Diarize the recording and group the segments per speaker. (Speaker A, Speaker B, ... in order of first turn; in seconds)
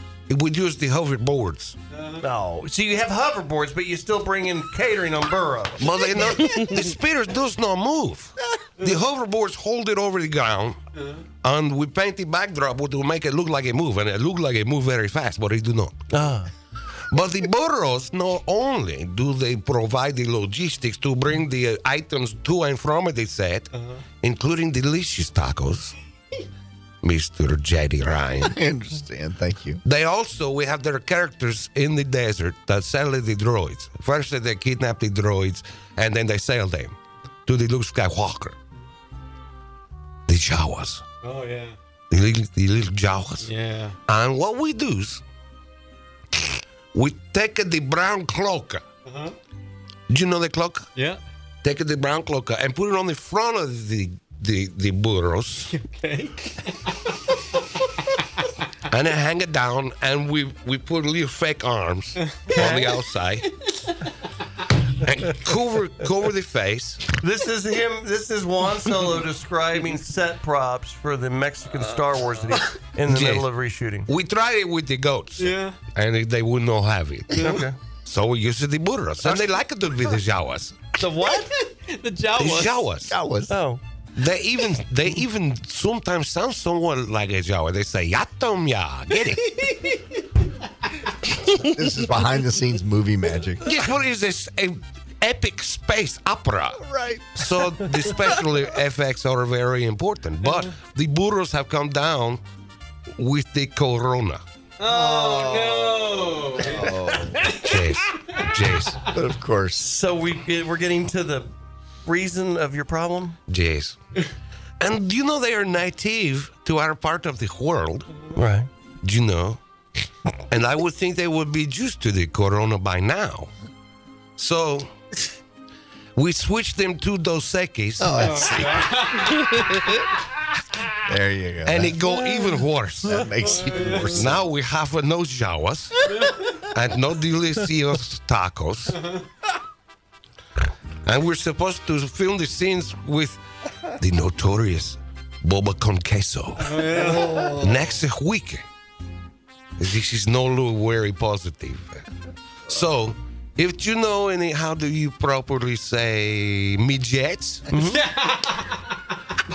Speaker A: 0.3-1.8, 5.8-10.8, 11.4-16.0, 17.1-23.7, 24.2-26.0, 27.0-28.6, 29.8-38.6, 40.3-41.0, 42.1-43.5, 44.1-45.2, 46.9-48.8, 50.1-50.9, 51.6-55.7, 58.9-63.5, 64.9-67.2, 73.1-73.5, 74.1-80.9, 82.4-83.2, 84.2-89.8, 93.6-96.8, 97.4-102.4, 103.2-104.4, 107.5-109.0, 113.5-114.0, 114.8-118.1, 119.0-119.6, 120.5-123.5, 124.4-124.9, 126.2-128.7, 131.7-133.4, 134.1-139.0, 141.1-148.7, 149.8-152.1, 152.7-157.7
Speaker B: 2.0-2.2, 41.2-41.8, 43.4-44.0, 49.1-49.4, 55.7-57.1, 75.4-75.8, 77.3-77.6, 81.7-82.9, 104.8-107.6, 128.2-130.1, 133.4-134.2, 136.1-136.5, 146.7-147.4, 157.8-158.8
Speaker C: 2.2-5.8, 16.1-16.5, 67.2-74.1, 81.0-81.5, 83.5-83.8, 109.9-111.5, 112.0-113.3, 118.4-118.7, 157.7-158.0
Speaker D: 28.4-29.8, 83.0-83.6, 91.4-93.7, 96.7-98.2, 104.9-107.6, 109.1-109.9, 128.0-129.6, 131.0-132.2, 133.0-134.4, 146.9-147.4